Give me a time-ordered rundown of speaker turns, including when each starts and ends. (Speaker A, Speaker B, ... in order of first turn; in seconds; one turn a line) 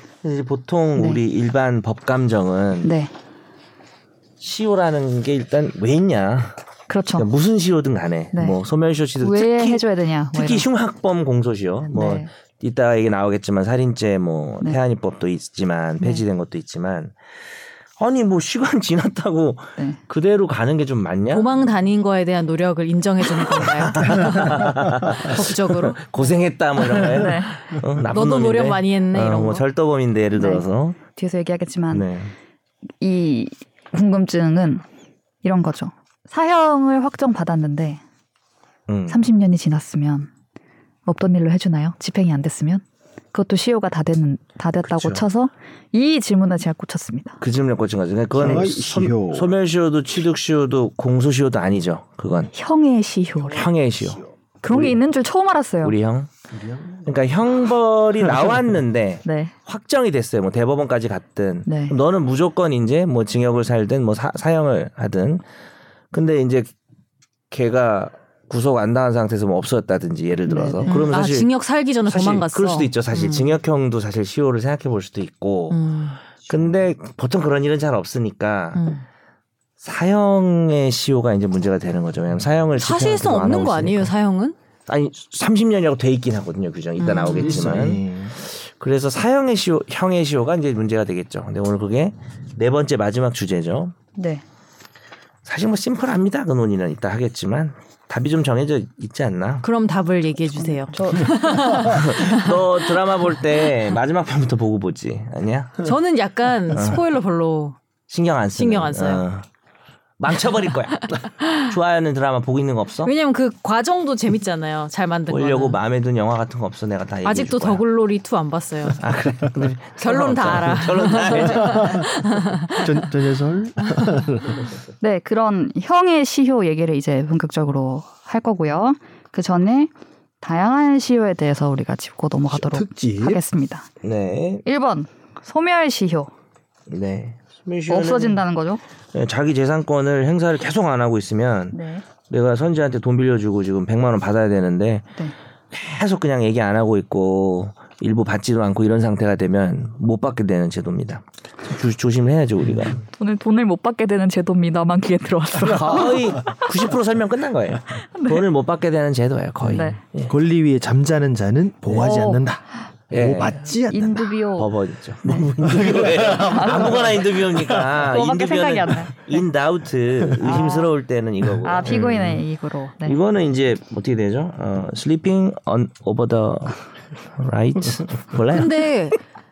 Speaker A: 0.2-2.9
Speaker B: 2.8-3.1
Speaker A: 4.4-6.6
Speaker B: 6.9-7.3
Speaker A: 7.2-9.8
Speaker B: 8.3-8.6
Speaker B: 9.2-10.7
Speaker A: 10.3-17.2
Speaker B: 11.9-12.3
Speaker A: 18.0-21.5
Speaker C: 21.3-26.0
Speaker A: 23.6-31.0
Speaker B: 27.0-27.5
Speaker C: 28.1-29.6
Speaker B: 30.4-32.1
Speaker A: 31.9-32.3
Speaker B: 33.0-34.8
Speaker B: 35.4-38.0
Speaker A: 38.9-39.2
Speaker B: 39.1-40.3
Speaker B: 41.1-47.4
Speaker A: 44.8-45.2
Speaker A: 47.4-52.5
Speaker D: 48.3-49.5
Speaker B: 52.5-53.7
Speaker A: 53.5-54.9
Speaker B: 54.6-56.0
Speaker A: 55.8-56.3
Speaker D: 56.5-57.1
Speaker A: 57.0-65.4
Speaker B: 59.2-59.5
Speaker B: 61.7-62.0
Speaker A: 66.1-66.7
Speaker A: 67.5-71.5
Speaker B: 70.5-71.0
Speaker C: 70.9-73.5
Speaker A: 72.1-75.8
Speaker C: 75.7-76.2
Speaker A: 76.5-78.8
Speaker C: 78.8-79.0
Speaker A: 79.8-84.1
Speaker C: 82.8-84.6
Speaker A: 84.9-94.0
Speaker C: 87.0-87.7
Speaker D: 87.3-88.4
Speaker B: 94.2-94.4
Speaker A: 95.5-99.7
Speaker C: 99.6-102.9
Speaker B: 100.6-101.6
Speaker A: 101.8-105.9
Speaker C: 105.8-107.8
Speaker A: 106.7-107.0
Speaker A: 108.1-109.5
Speaker C: 108.5-109.2
Speaker A: 110.2-113.1
Speaker C: 113.0-115.8
Speaker A: 115.3-117.8
Speaker C: 117.2-119.0
Speaker A: 119.0-122.1
Speaker C: 120.0-123.1
Speaker D: 121.7-122.0
Speaker D: 122.7-124.7
Speaker B: 125.0-133.9
Speaker D: 132.5-133.4
Speaker A: 134.0-134.6
Speaker B: 134.7-136.3
Speaker A: 136.9-138.4
Speaker B: 137.9-138.8
Speaker A: 139.1-141.8
Speaker B: 141.7-142.0
Speaker A: 142.3-145.1
Speaker A: 145.7-153.0
Speaker B: 153.1-156.6
Speaker A: 155.7-160.3
Speaker B: 158.1-158.4
Speaker D: 159.7-164.3
Speaker B: 159.7-160.0
Speaker B: 161.9-162.4
Speaker A: 163.1-163.6
Speaker B: 163.6-164.7
Speaker A: 164.6-172.2
Speaker B: 165.2-165.5
Speaker D: 165.6-167.2
Speaker B: 166.3-167.2
Speaker B: 168.0-169.4
Speaker B: 170.4-170.9
Speaker B: 171.6-173.2
Speaker D: 171.9-172.4
Speaker A: 173.0-178.8
Speaker C: 178.5-179.2